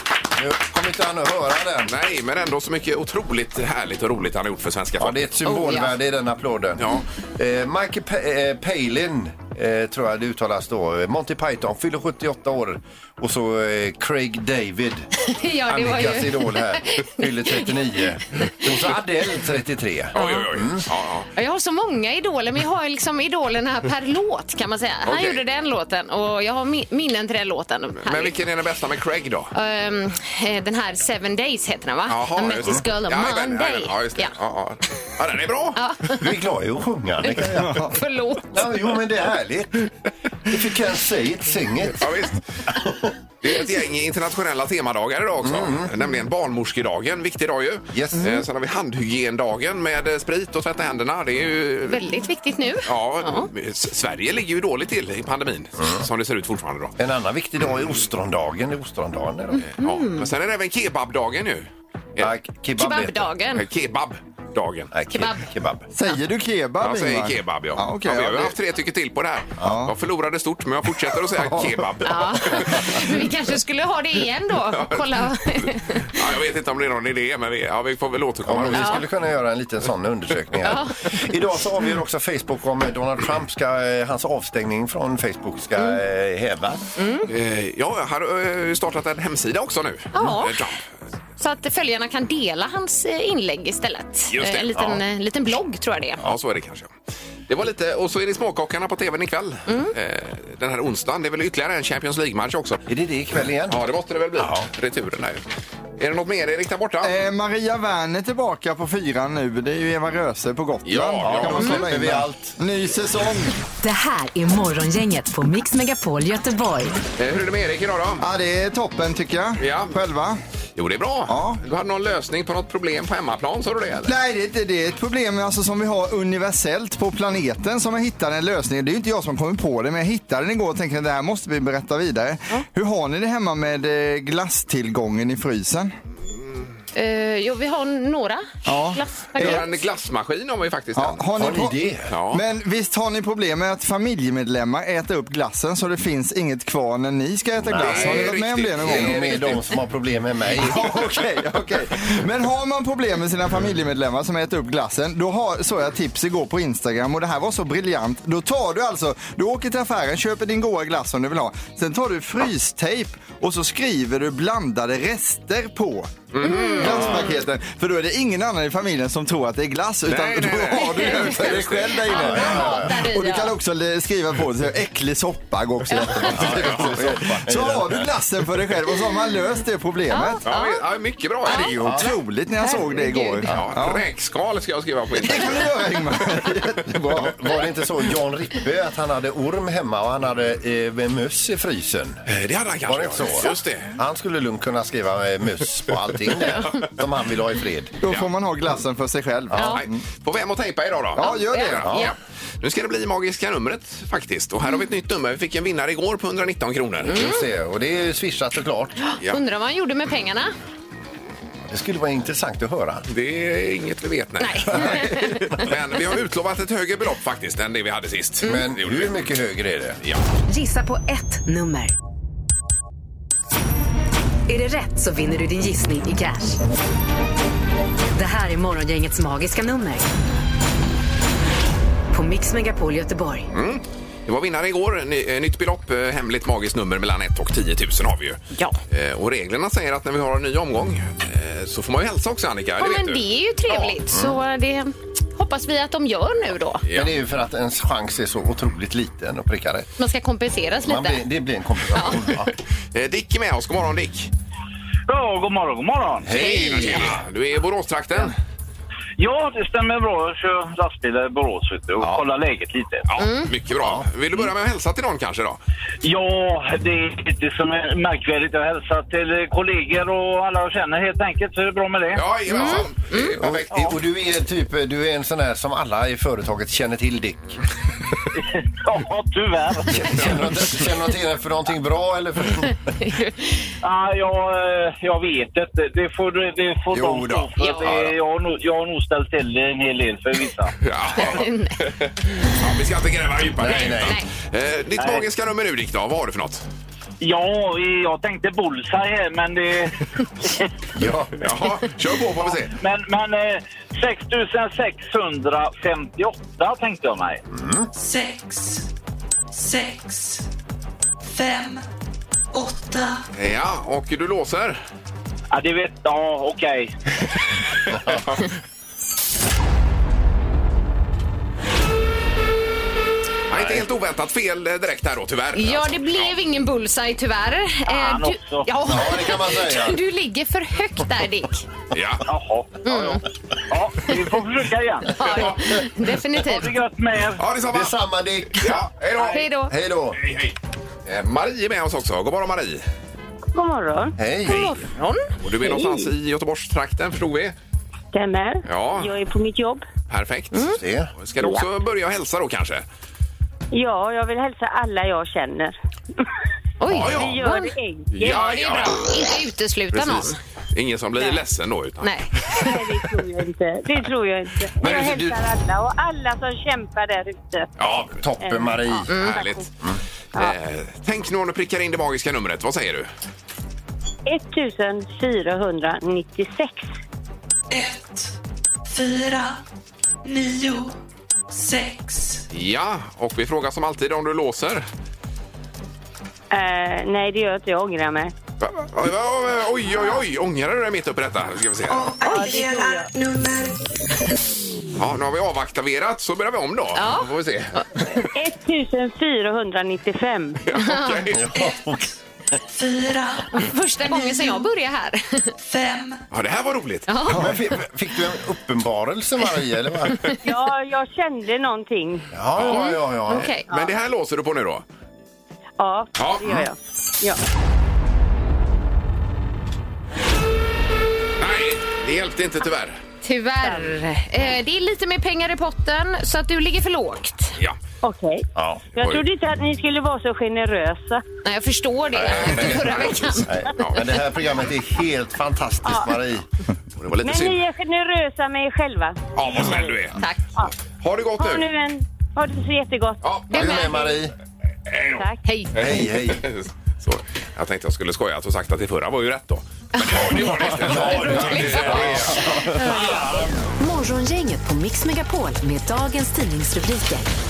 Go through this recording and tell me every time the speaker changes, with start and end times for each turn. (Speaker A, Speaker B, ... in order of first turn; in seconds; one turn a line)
Speaker A: 0.4-1.9
Speaker B: 1.9-5.3
Speaker A: 5.0-15.1
Speaker C: 5.5-5.9
Speaker C: 15.2-18.1
Speaker A: 15.7-20.9
Speaker B: 20.1-21.3
Speaker C: 20.2-20.5
Speaker C: 21.4-28.4
Speaker B: 25.1-25.4
Speaker B: 28.0-29.5
Speaker C: 29.5-34.3
Speaker B: 32.1-35.9
Speaker C: 35.8-36.3
Speaker A: 36.1-37.9
Speaker C: 37.2-38.7
Speaker D: 37.6-38.0
Speaker A: 38.5-39.9
Speaker A: 40.5-42.1
Speaker B: 42.0-42.6
Speaker A: 42.7-43.1
Speaker B: 43.4-52.1
Speaker A: 45.4-45.9
Speaker A: 47.9-48.4
Speaker C: 51.9-53.5
Speaker B: 52.9-57.0
Speaker A: 57.0-59.7
Speaker B: 59.7-62.3
Speaker C: 59.8-60.3
Speaker A: 62.2-63.3
Speaker C: 62.8-63.6
Speaker B: 63.5-64.9
Speaker A: 64.9-65.9
Speaker C: 65.1-65.5
Speaker D: 65.9-68.5
Speaker B: 66.8-73.2
Speaker D: 69.6-69.9
Speaker C: 72.0-76.1
Speaker B: 74.7-79.0
Speaker A: 78.5-86.9
Speaker C: 78.7-79.0
Speaker C: 80.7-81.2
Speaker C: 87.0-87.3
Speaker B: 87.3-90.8
Speaker C: 90.1-90.6
Speaker C: 91.4-96.2
Speaker B: 94.3-95.0
Speaker B: 96.2-96.9
Speaker B: 97.5-102.8
Speaker C: 99.7-99.9
Speaker A: 102.9-103.8
Speaker B: 103.7-105.4
Speaker A: 104.4-104.7
Speaker B: 106.0-107.1
Speaker D: 107.0-113.5
Speaker B: 110.8-111.8
Speaker A: 111.2-112.5
Speaker E: 113.8-117.0
Speaker B: 117.2-118.2
Speaker D: 118.2-120.4
Speaker B: 119.6-119.9
Speaker B: 120.8-124.1
Speaker D: 121.3-121.6
Speaker D: 124.1-135.9
Speaker C: 136.9-139.8
Speaker D: 138.7-139.6
Speaker B: 139.4-141.3
Speaker D: 141.0-141.8
Speaker A: 141.3-142.1
Speaker B: 142.1-142.4
Speaker D: 142.3-149.2
Speaker A: 147.6-151.1
Speaker B: 147.8-149.6
Speaker D: 150.6-166.2
Speaker B: 166.3-167.2
Speaker C: 166.4-167.3
Speaker D: 166.8-180.4
Speaker B: 170.1-171.9
Speaker C: 170.8-173.5
Speaker A: 171.3-173.0
Speaker C: 175.9-176.3
Speaker A: 176.2-178.1
Speaker B: 176.5-176.9
Speaker C: 180.1-180.8
Speaker B: 180.5-181.8
Speaker C: 181.5-181.8
Speaker D: 181.5-184.0
Speaker A: 181.8-182.1
Speaker C: 182.6-183.5
Speaker B: 183.5-185.8
Speaker D: 185.2-187.3
Speaker A: 187.0-192.2
Speaker B: 192.3-193.9
Speaker A: 192.9-197.9
Speaker D: 198.0-200.0
Speaker A: 199.5-199.8
Speaker C: 199.6-199.8
Speaker B: 199.6-207.3
Speaker C: 201.2-202.1
Speaker D: 201.2-201.8
Speaker A: 201.8-202.1
Speaker C: 207.1-207.4
Speaker A: 207.1-209.0
Speaker C: 209.0-210.5
Speaker A: 211.7-213.1
Speaker B: 213.1-219.2
Speaker C: 214.4-215.6
Speaker A: 214.8-215.4
Speaker A: 218.4-220.0
Speaker E: 220.5-221.9
Speaker E: 224.5-226.6
Speaker E: 228.1-230.1
Speaker E: 232.1-233.5
Speaker B: 233.5-244.0
Speaker C: 242.8-246.8
Speaker A: 244.1-244.4
Speaker B: 246.8-247.1
Speaker A: 246.9-249.9
Speaker C: 250.0-251.2
Speaker A: 250.8-252.5
Speaker C: 251.9-252.2
Speaker B: 252.9-254.3
Speaker F: 255.1-256.6
Speaker A: 256.2-257.2
Speaker B: 256.3-258.4
Speaker C: 256.5-256.8
Speaker F: 259.2-263.1
Speaker B: 263.1-265.6
Speaker C: 263.2-263.5
Speaker A: 263.8-264.1
Speaker F: 266.0-272.2
Speaker B: 272.1-274.0
Speaker C: 272.5-273.4
Speaker A: 273.4-277.6
Speaker F: 278.4-280.1
Speaker A: 279.9-282.8
Speaker C: 283.0-283.7
Speaker F: 283.8-290.7
Speaker A: 286.9-287.9
Speaker C: 287.6-287.9
Speaker B: 290.8-296.6
Speaker C: 291.2-291.8
Speaker A: 293.6-294.2
Speaker C: 293.6-294.3
Speaker F: 295.0-295.2
Speaker F: 297.2-300.7
Speaker A: 300.9-301.4
Speaker B: 301.4-302.8
Speaker F: 302.8-307.4
Speaker A: 307.5-307.9
Speaker G: 307.9-308.9
Speaker G: 309.5-310.5
Speaker G: 311.2-311.9
Speaker G: 312.5-313.2
Speaker B: 313.3-314.8
Speaker F: 315.5-316.9
Speaker B: 317.9-318.4
Speaker B: 323.5-326.4
Speaker A: 323.5-323.8
Speaker C: 325.5-331.7
Speaker F: 327.9-328.7
Speaker A: 328.8-330.0
Speaker B: 331.9-332.2
Speaker F: 332.3-335.6
Speaker C: 332.9-333.2
Speaker C: 335.2-336.8
Speaker F: 336.4-337.4
Speaker B: 337.4-338.0
Speaker A: 337.7-338.8
Speaker B: 338.6-339.5
Speaker C: 339.2-339.7
Speaker A: 339.7-340.2
Speaker B: 340.2-340.6
Speaker B: 341.1-342.9
Speaker H: 343.5-344.1
Speaker A: 344.2-344.7
Speaker C: 344.5-345.8
Speaker B: 345.4-347.6
Speaker H: 348.1-349.9
Speaker B: 348.7-349.1
Speaker B: 350.1-352.9
Speaker C: 350.5-350.8
Speaker A: 350.7-351.1
Speaker H: 351.4-351.7
Speaker H: 353.7-355.8
Speaker C: 356.8-360.4
Speaker B: 356.9-357.4
Speaker H: 357.1-358.5
Speaker B: 358.1-359.1
Speaker B: 359.9-362.2
Speaker C: 362.0-362.8
Speaker H: 362.5-367.7
Speaker A: 364.8-365.4
Speaker B: 367.8-368.1
Speaker A: 367.8-369.1
Speaker H: 368.4-369.7
Speaker C: 369.1-369.4
Speaker B: 369.2-369.7
Speaker B: 370.4-373.1
Speaker H: 374.3-376.9
Speaker G: 377.7-378.3
Speaker G: 378.9-379.6
Speaker G: 380.2-381.0
Speaker G: 381.5-382.4
Speaker B: 382.5-384.9
Speaker H: 386.5-388.3
Speaker B: 388.6-392.1
Speaker G: 391.9-393.8
Speaker H: 392.2-393.1
Speaker C: 392.2-392.6
Speaker B: 395.0-398.1
Speaker C: 396.9-398.1
Speaker H: 398.3-400.6
Speaker B: 400.6-401.4
Speaker C: 400.7-401.4
Speaker A: 401.3-402.1
Speaker G: 401.5-402.0
Speaker G: 402.7-403.7
Speaker C: 403.5-405.5
Speaker G: 405.6-406.2
Speaker B: 406.3-407.1
Speaker C: 407.1-407.6
Speaker A: 407.3-410.3
Speaker H: 410.4-412.3
Speaker A: 412.3-413.5
Speaker B: 412.6-413.0
Speaker C: 412.7-413.7
Speaker B: 413.7-414.8
Speaker H: 415.8-417.4
Speaker B: 416.2-416.7
Speaker B: 421.4-423.0
Speaker C: 423.2-427.6
Speaker H: 423.6-423.9
Speaker H: 428.0-431.2
Speaker A: 428.6-428.8
Speaker B: 429.0-429.2
Speaker C: 431.4-433.6
Speaker A: 432.1-436.5
Speaker B: 432.2-434.1
Speaker H: 435.9-436.1
Speaker B: 437.0-437.6
Speaker H: 437.2-439.9
Speaker B: 439.4-440.2
Speaker B: 441.0-441.7
Speaker H: 441.4-443.2
Speaker B: 443.2-443.8
Speaker C: 443.5-444.2
Speaker A: 443.5-444.3
Speaker B: 444.9-445.2
Speaker H: 445.1-445.4
Speaker C: 445.4-446.1
Speaker A: 445.8-446.5
Speaker B: 445.8-452.4
Speaker C: 450.0-453.3
Speaker A: 450.6-453.1
Speaker H: 452.9-453.4
Speaker E: 453.8-457.3